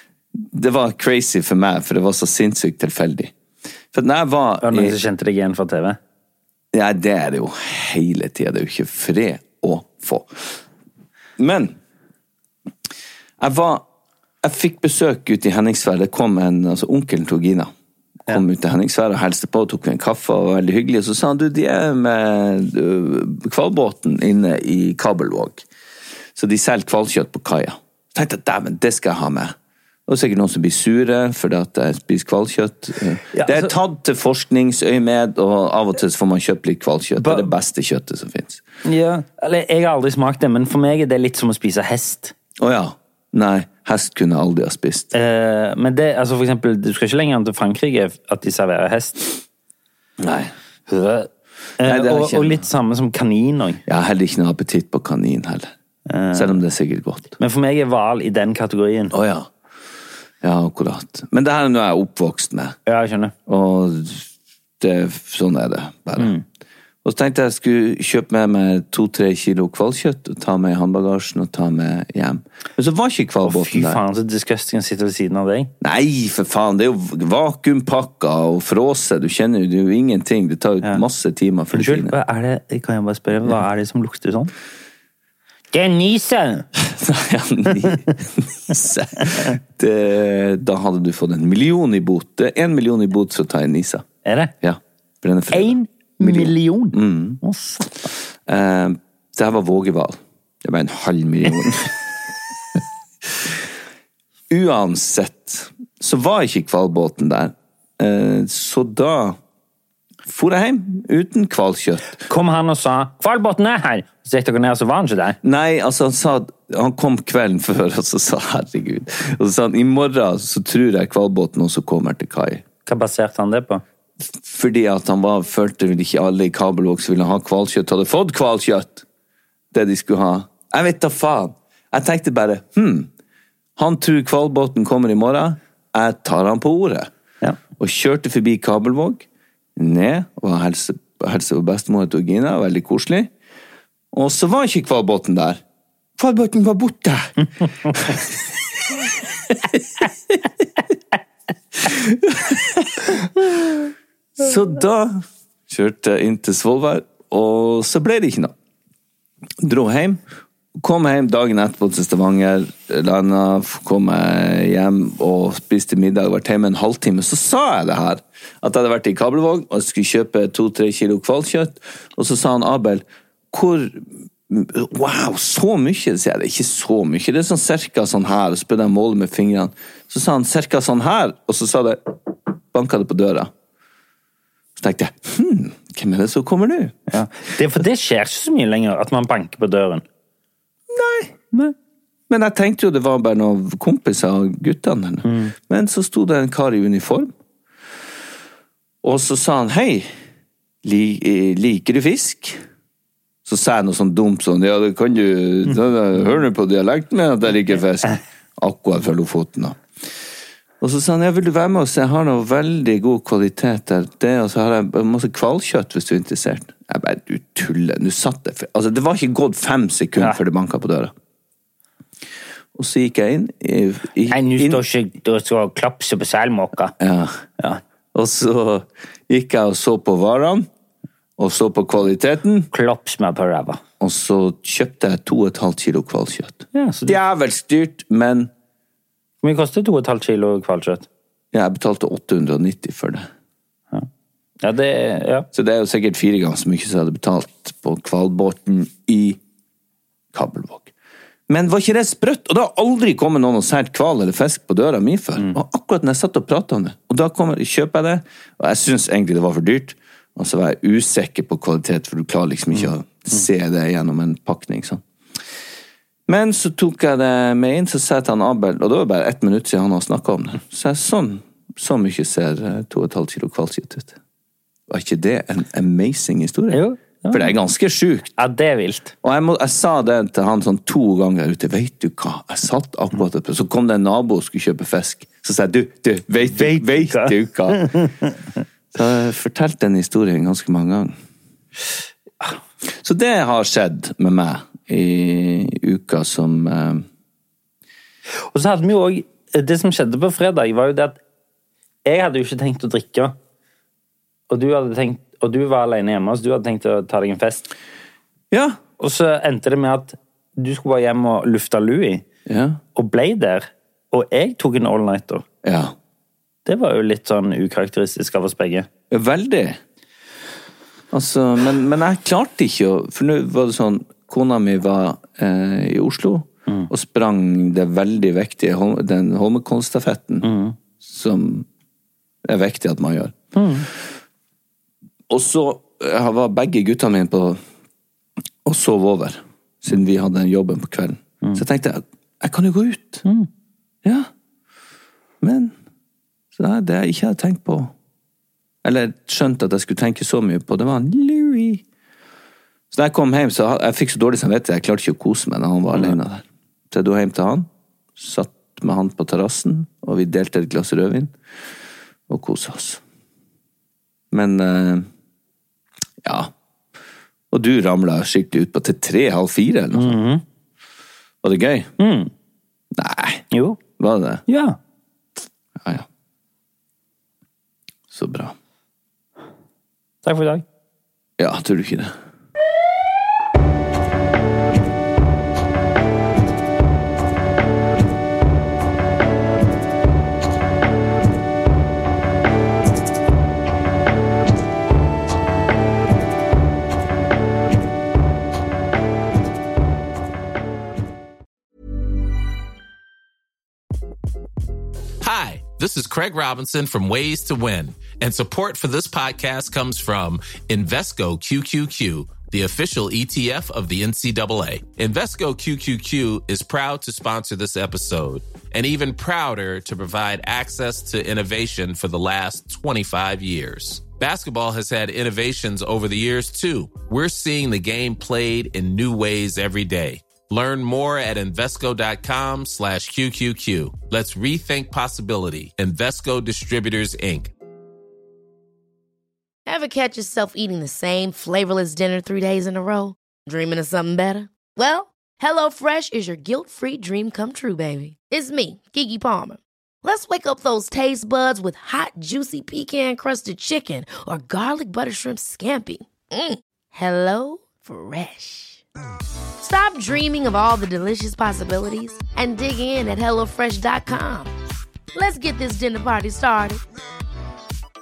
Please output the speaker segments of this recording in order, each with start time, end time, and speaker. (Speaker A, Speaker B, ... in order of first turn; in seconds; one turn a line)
Speaker A: 0.4-3.3
Speaker A: 3.9-5.0
Speaker B: 4.6-6.0
Speaker A: 6.7-10.6
Speaker A: 11.4-11.8
Speaker A: 13.4-13.8
Speaker A: 14.4-17.7
Speaker A: 18.3-25.6
Speaker A: 26.3-29.5
Speaker A: 30.1-38.6
Speaker B: 33.3-33.7
Speaker B: 37.2-37.5
Speaker B: 38.8-42.3
Speaker A: 42.6-45.1
Speaker B: 45.1-49.3
Speaker A: 50.2-50.5
Speaker B: 50.9-53.8
Speaker A: 51.8-52.6
Speaker A: 53.9-55.7
Speaker B: 56.1-56.6
Speaker A: 56.3-57.4
Speaker B: 57.4-59.1
Speaker A: 59.1-59.5
Speaker A: 60.4-62.8
Speaker B: 62.9-63.3
Speaker A: 63.5-64.3
Speaker A: 64.8-66.3
Speaker B: 66.2-66.4
Speaker A: 67.0-74.0
Speaker B: 73.4-75.7
Speaker A: 75.8-82.2
Speaker B: 81.7-84.5
Speaker B: 85.7-86.7
Speaker A: 86.8-94.0
Speaker B: 89.2-89.5
Speaker B: 94.2-94.5
Speaker A: 94.6-97.4
Speaker B: 95.5-98.0
Speaker A: 98.5-101.9
Speaker A: 104.5-109.4
Speaker A: 110.2-112.2
Speaker B: 112.2-115.4
Speaker A: 115.4-122.6
Speaker B: 122.8-123.8
Speaker A: 124.2-129.0
Speaker A: 129.7-133.1
Speaker A: 133.8-137.1
Speaker A: 137.8-143.3
Speaker A: 144.1-145.6
Speaker A: 146.2-150.1
Speaker A: 151.8-158.5
Speaker A: 159.6-160.2
Speaker A: 160.8-182.1
Speaker A: 182.7-183.5
Speaker A: 184.8-187.1
Speaker B: 187.1-190.0
Speaker A: 190.9-191.3
Speaker A: 192.3-197.3
Speaker B: 195.2-195.5
Speaker A: 199.0-200.1
Speaker A: 200.8-202.6
Speaker A: 203.4-209.8
Speaker A: 210.8-221.1
Speaker A: 222.7-224.8
Speaker B: 224.3-226.9
Speaker A: 227.0-227.4
Speaker A: 228.1-230.7
Speaker A: 231.4-232.7
Speaker B: 232.7-233.8
Speaker A: 234.0-238.5
Speaker B: 236.7-237.2
Speaker B: 239.4-241.1
Speaker A: 241.5-243.3
Speaker B: 244.6-245.5
Speaker A: 245.5-249.4
Speaker A: 250.3-250.9
Speaker A: 251.5-265.0
Speaker A: 266.3-274.1
Speaker A: 274.9-278.3
Speaker B: 276.7-277.5
Speaker B: 278.4-279.1
Speaker A: 279.2-288.0
Speaker B: 286.5-288.3
Speaker A: 288.9-291.1
Speaker A: 293.0-297.1
Speaker B: 298.5-301.2
Speaker B: 302.0-303.3
Speaker B: 304.5-307.7
Speaker A: 308.5-308.8
Speaker B: 309.0-312.2
Speaker A: 312.4-312.8
Speaker B: 312.9-315.4
Speaker A: 315.6-315.9
Speaker B: 316.6-318.9
Speaker A: 319.1-319.8
Speaker A: 321.1-330.5
Speaker B: 330.4-330.8
Speaker A: 331.0-331.7
Speaker A: 332.4-333.4
Speaker B: 333.5-333.9
Speaker A: 335.3-337.6
Speaker A: 338.6-343.2
Speaker A: 344.0-344.3
Speaker A: 345.4-345.7
Speaker A: 346.5-347.9
Speaker A: 348.8-351.8
Speaker A: 352.9-361.3
Speaker A: 362.3-363.0
Speaker A: 364.3-365.1
Speaker A: 366.2-366.5
Speaker A: 367.5-370.2
Speaker B: 369.9-370.4
Speaker A: 371.4-371.9
Speaker B: 372.0-372.3
Speaker A: 372.9-373.4
Speaker B: 373.5-373.8
Speaker A: 374.0-374.4
Speaker B: 374.5-374.8
Speaker A: 378.1-378.5
Speaker B: 380.2-380.6
Speaker A: 381.4-382.1
Speaker C: 405.2-437.5
Speaker D: 439.6-458.8
Speaker D: 459.6-464.5
Speaker D: 465.1-466.8